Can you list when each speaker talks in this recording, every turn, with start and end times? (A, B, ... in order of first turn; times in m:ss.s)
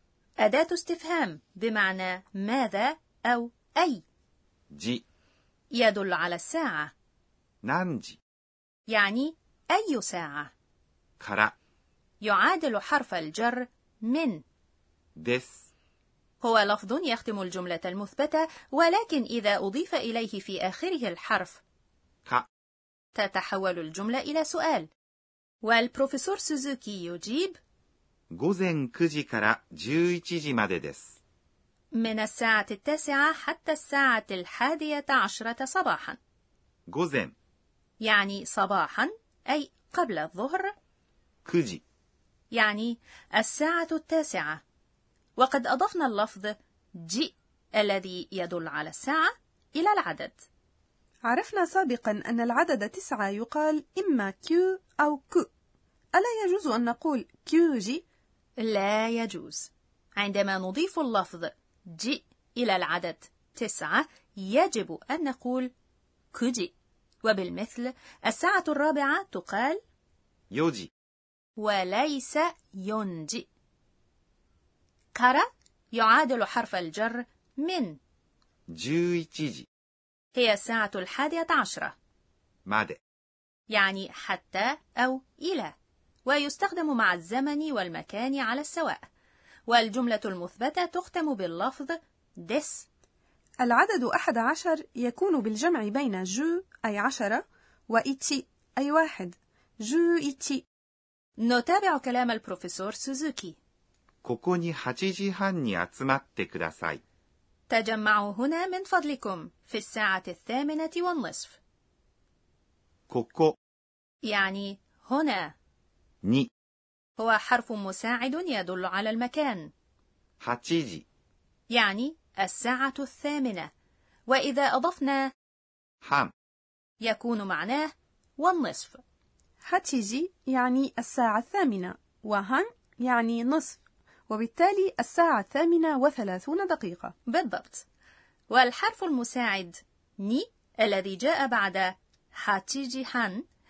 0:00.4-0:04.0 A
0:04.7-0:05.0 B
0:05.7-0:06.9 A
0:07.6-0:08.2 B
0:08.9-0:10.5 A
0:11.2-0:11.5 B
0:12.2-0:14.4 A
0:15.2-0:15.7 B
0:16.4-0:21.6 A
0:23.2-0:24.9 A
0:25.6-0:27.6 A
0:28.3-0:31.2 B
0:32.0-0:36.2 A
0:36.9-0:37.3 B
0:38.0-0:40.7 A
0:41.4-0:41.8 B
0:42.5-0:44.6 A
0:45.4-0:50.4 A
0:51.3-0:55.5 C
0:56.2-0:58.0 C
0:58.6-1:05.7 A
1:06.3-1:06.7 A
1:07.2-1:09.8 A
1:10.5-1:10.9 B
1:11.6-1:13.4 A
1:15.2-1:18.0 A
1:18.7-1:19.7 B
1:20.4-1:21.9 A
1:22.7-1:23.0 B
1:23.7-1:25.7 A
1:26.3-1:29.0 A
1:29.7-1:32.9 A
1:33.6-1:40.6 C
1:41.4-1:43.6 A
1:44.2-1:47.0 B
1:47.7-1:51.6 A
1:53.1-1:53.6 B
1:54.2-1:55.5 A
1:56.2-1:56.5 B
1:57.2-1:59.7 A
2:00.4-2:01.0 B
2:01.7-2:03.7 A
2:04.3-2:05.3 A
2:06.0-2:06.3 B
2:07.0-2:09.0 A
2:09.6-2:17.1 C
2:17.3-2:17.8 A
2:18.5-2:23.4 A